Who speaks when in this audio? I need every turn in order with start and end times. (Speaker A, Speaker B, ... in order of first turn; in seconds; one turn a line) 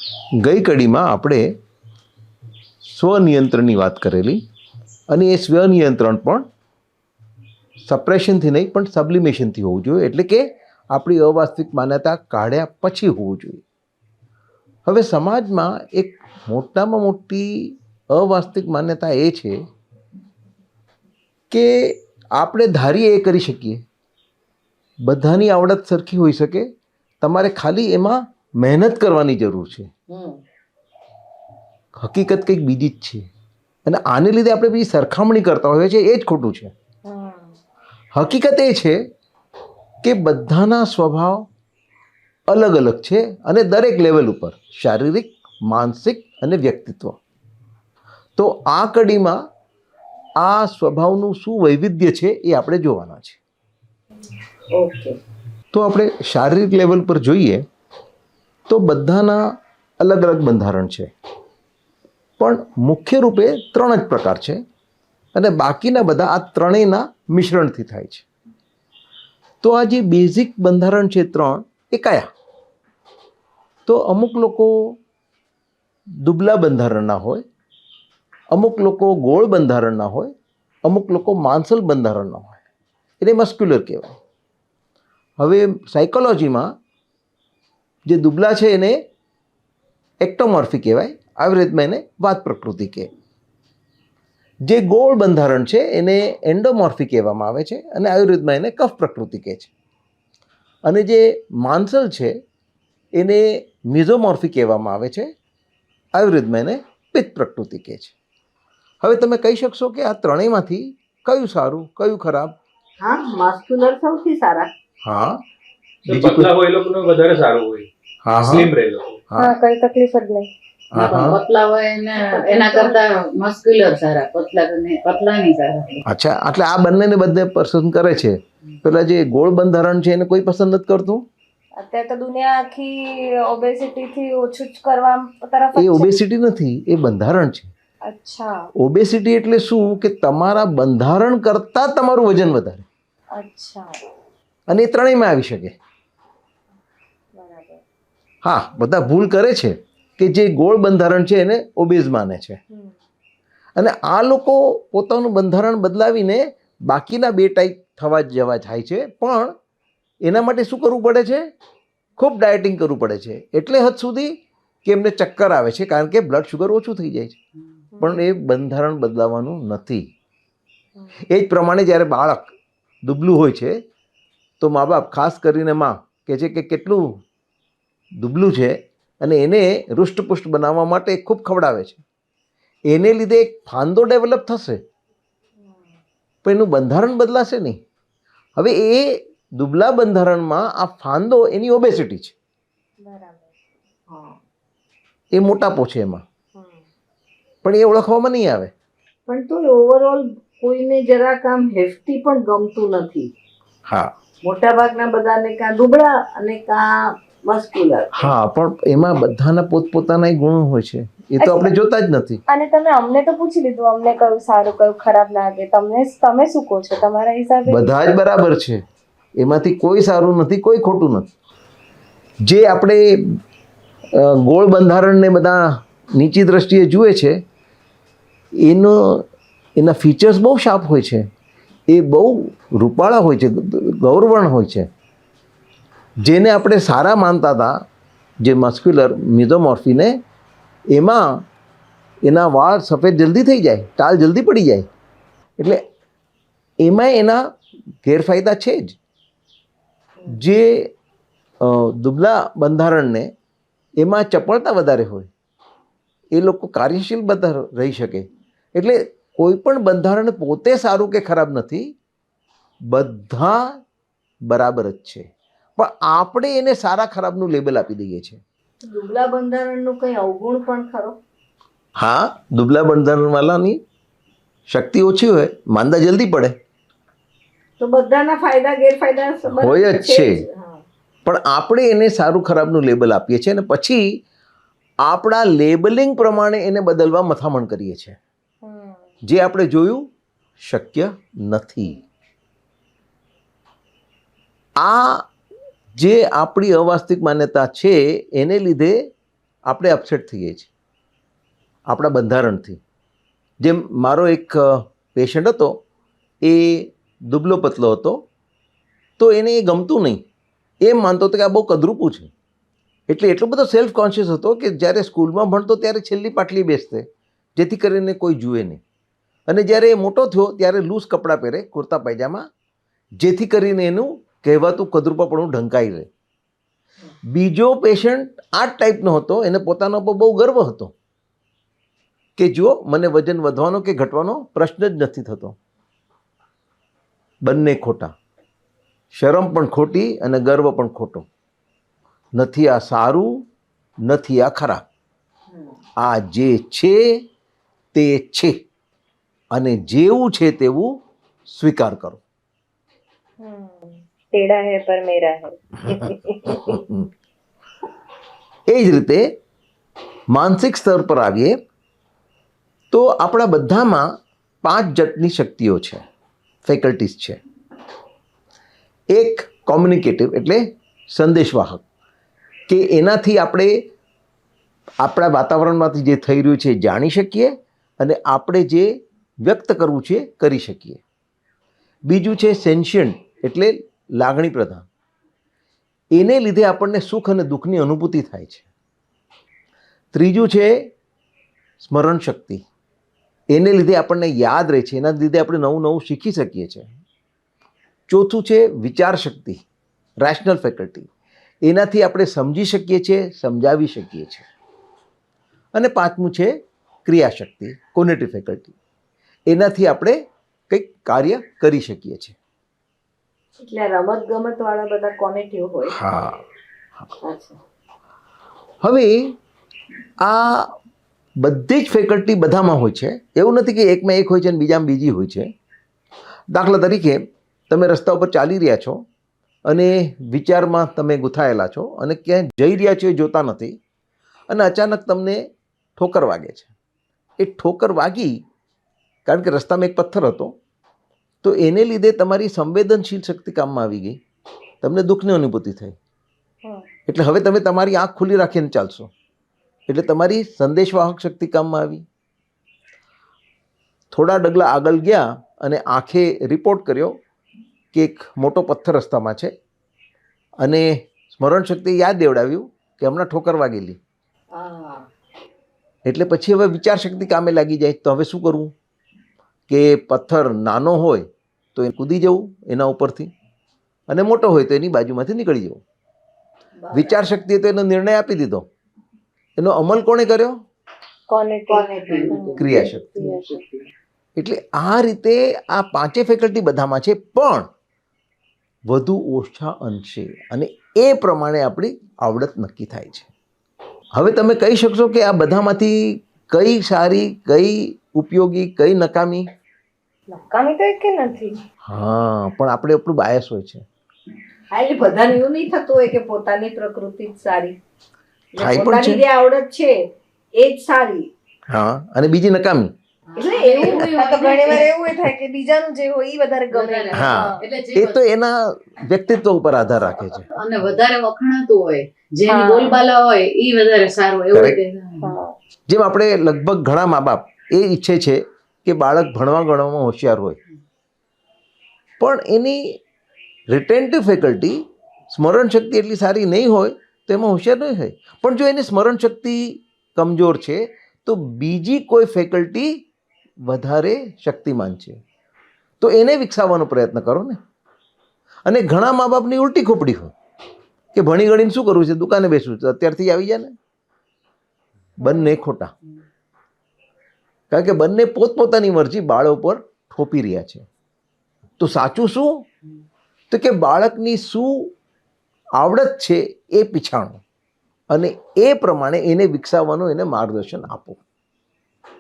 Speaker A: 0.4-1.5
Speaker A: 2.8-4.4
Speaker A: 5.1-6.5
Speaker A: 7.8-13.6
Speaker A: 14.9-19.6
Speaker A: 21.5-23.9
Speaker A: 25.0-26.7
Speaker A: 27.2-29.9
Speaker B: 30.1-30.4
Speaker A: 31.9-33.3
Speaker A: 33.9-36.7
Speaker C: 37.0-37.5
Speaker A: 38.1-39.0
Speaker A: 40.0-41.5
Speaker A: 42.5-47.2
Speaker A: 48.4-49.4
Speaker A: 50.4-53.4
Speaker B: 54.7-55.2
Speaker A: 55.7-57.6
Speaker A: 58.7-61.1
Speaker A: 62.4-64.6
Speaker A: 65.3-68.2
Speaker A: 69.6-72.3
Speaker A: 73.9-75.0
Speaker A: 76.2-77.4
Speaker A: 78.5-82.6
Speaker A: 83.2-84.2
Speaker A: 85.4-86.7
Speaker A: 88.0-89.0
Speaker A: 90.2-93.1
Speaker A: 94.7-99.7
Speaker A: 100.8-102.4
Speaker A: 103.2-105.3
Speaker A: 106.1-108.1
Speaker A: 109.0-112.6
Speaker B: 113.0-114.7
Speaker A: 115.0-115.4
Speaker D: 116.1-117.9
Speaker A: 116.1-116.5
Speaker A: 118.2-118.7
Speaker D: 118.4-119.2
Speaker A: 119.3-119.5
Speaker C: 119.4-120.5
Speaker A: 120.9-121.4
Speaker E: 121.0-126.0
Speaker B: 122.3-122.9
Speaker A: 126.0-131.3
Speaker C: 131.8-136.1
Speaker A: 135.8-137.7
Speaker C: 138.0-138.7
Speaker A: 138.8-142.9
Speaker C: 143.3-144.0
Speaker A: 144.7-145.8
Speaker C: 147.3-147.8
Speaker A: 148.4-152.6
Speaker A: 153.8-159.6
Speaker A: 160.2-161.5
Speaker A: 162.2-167.4
Speaker C: 167.9-168.2
Speaker A: 168.0-170.1
Speaker A: 171.3-173.8
Speaker A: 174.6-177.2
Speaker A: 178.2-182.0
Speaker A: 182.9-184.8
Speaker C: 185.6-185.9
Speaker A: 186.4-187.8
Speaker A: 188.6-192.3
Speaker C: 193.0-193.5
Speaker B: 194.1-194.4
Speaker A: 195.3-196.2
Speaker C: 196.6-196.8
Speaker A: 197.6-198.7
Speaker B: 199.3-203.3
Speaker A: 203.9-204.1
Speaker B: 204.4-208.3
Speaker A: 208.1-212.4
Speaker C: 211.4-211.7
Speaker C: 212.5-217.9
Speaker A: 217.7-218.8
Speaker A: 219.4-221.3
Speaker A: 222.4-223.4
Speaker A: 224.1-227.4
Speaker A: 228.6-229.3
Speaker A: 229.8-231.3
Speaker A: 231.9-234.9
Speaker A: 236.2-237.9
Speaker A: 238.4-240.2
Speaker A: 240.9-241.5
Speaker A: 242.2-244.9
Speaker A: 245.6-245.8
Speaker A: 246.8-249.0
Speaker A: 250.3-250.9
Speaker A: 251.6-253.3
Speaker A: 254.0-255.3
Speaker A: 256.3-261.9
Speaker A: 262.9-263.8
Speaker A: 264.5-268.4
Speaker B: 268.8-271.2
Speaker A: 272.0-273.8
Speaker A: 274.7-276.6
Speaker B: 277.8-280.8
Speaker A: 279.5-280.4
Speaker A: 281.2-284.2
Speaker A: 285.0-288.2
Speaker C: 288.6-289.1
Speaker A: 289.2-292.0
Speaker A: 294.8-295.3
Speaker A: 295.9-299.1
Speaker A: 299.7-300.7
Speaker A: 301.9-302.8
Speaker A: 303.6-305.8
Speaker A: 306.4-308.2
Speaker A: 309.2-310.2
Speaker A: 310.8-312.3
Speaker A: 313.1-318.8
Speaker A: 319.5-322.5
Speaker A: 323.2-326.1
Speaker A: 327.3-330.9
Speaker A: 332.4-335.6
Speaker A: 337.4-338.1
Speaker A: 339.1-341.3
Speaker A: 342.4-343.4
Speaker A: 344.0-344.8
Speaker B: 345.5-345.8
Speaker A: 346.0-347.2
Speaker A: 347.9-348.6
Speaker A: 349.5-351.0
Speaker A: 351.5-352.2
Speaker C: 353.4-356.8
Speaker A: 355.9-357.1
Speaker A: 358.7-359.4
Speaker A: 360.3-361.6
Speaker A: 362.9-366.1
Speaker A: 366.6-367.4
Speaker A: 369.1-371.8
Speaker A: 372.7-373.9
Speaker A: 375.0-381.0
Speaker A: 382.1-384.9
Speaker A: 386.1-388.7
Speaker A: 390.1-390.9
Speaker A: 391.8-392.6
Speaker A: 393.5-396.9
Speaker A: 398.1-399.6
Speaker A: 400.2-401.1
Speaker A: 401.6-404.4
Speaker A: 405.7-408.7
Speaker A: 409.5-412.4
Speaker B: 413.6-416.0
Speaker A: 415.9-416.4
Speaker B: 417.2-417.6
Speaker A: 418.8-419.4
Speaker A: 420.2-420.8
Speaker A: 421.4-425.5
Speaker A: 426.5-429.0
Speaker A: 429.7-433.8
Speaker A: 434.5-436.7
Speaker A: 437.4-438.4
Speaker A: 439.3-440.6
Speaker A: 441.4-444.2
Speaker A: 444.8-446.0
Speaker A: 447.1-449.1
Speaker A: 449.9-452.1
Speaker A: 454.1-457.2
Speaker A: 457.9-459.6
Speaker A: 460.6-464.0
Speaker B: 464.5-465.1
Speaker A: 466.1-468.7
Speaker A: 469.7-473.3
Speaker A: 474.1-475.8
Speaker B: 476.8-477.2
Speaker A: 476.9-478.7
Speaker A: 479.6-480.6
Speaker C: 481.3-483.6
Speaker B: 481.7-482.9
Speaker E: 482.1-482.4
Speaker A: 482.6-483.2
Speaker A: 484.4-487.7
Speaker A: 488.9-493.3
Speaker A: 494.1-499.5
Speaker C: 500.3-501.6
Speaker A: 501.8-503.9
Speaker B: 504.7-507.8
Speaker B: 508.5-510.0
Speaker A: 508.6-509.2
Speaker B: 510.6-511.3
Speaker A: 511.7-512.9
Speaker E: 513.3-515.0
Speaker B: 513.4-514.1
Speaker C: 513.8-517.6
Speaker E: 516.7-518.2
Speaker A: 517.1-520.5
Speaker E: 520.5-525.4
Speaker C: 522.5-523.0
Speaker A: 524.5-524.8
Speaker C: 525.2-525.5
Speaker A: 525.9-530.6
Speaker A: 532.2-533.0
Speaker A: 533.7-543.0
Speaker A: 543.6-545.2
Speaker A: 546.0-547.6
Speaker A: 548.6-550.3
Speaker A: 551.1-553.8
Speaker A: 555.2-555.9
Speaker C: 555.2-555.5
Speaker A: 557.7-560.9
Speaker A: 561.8-562.6
Speaker A: 563.5-564.9
Speaker A: 565.8-567.4
Speaker A: 568.1-571.2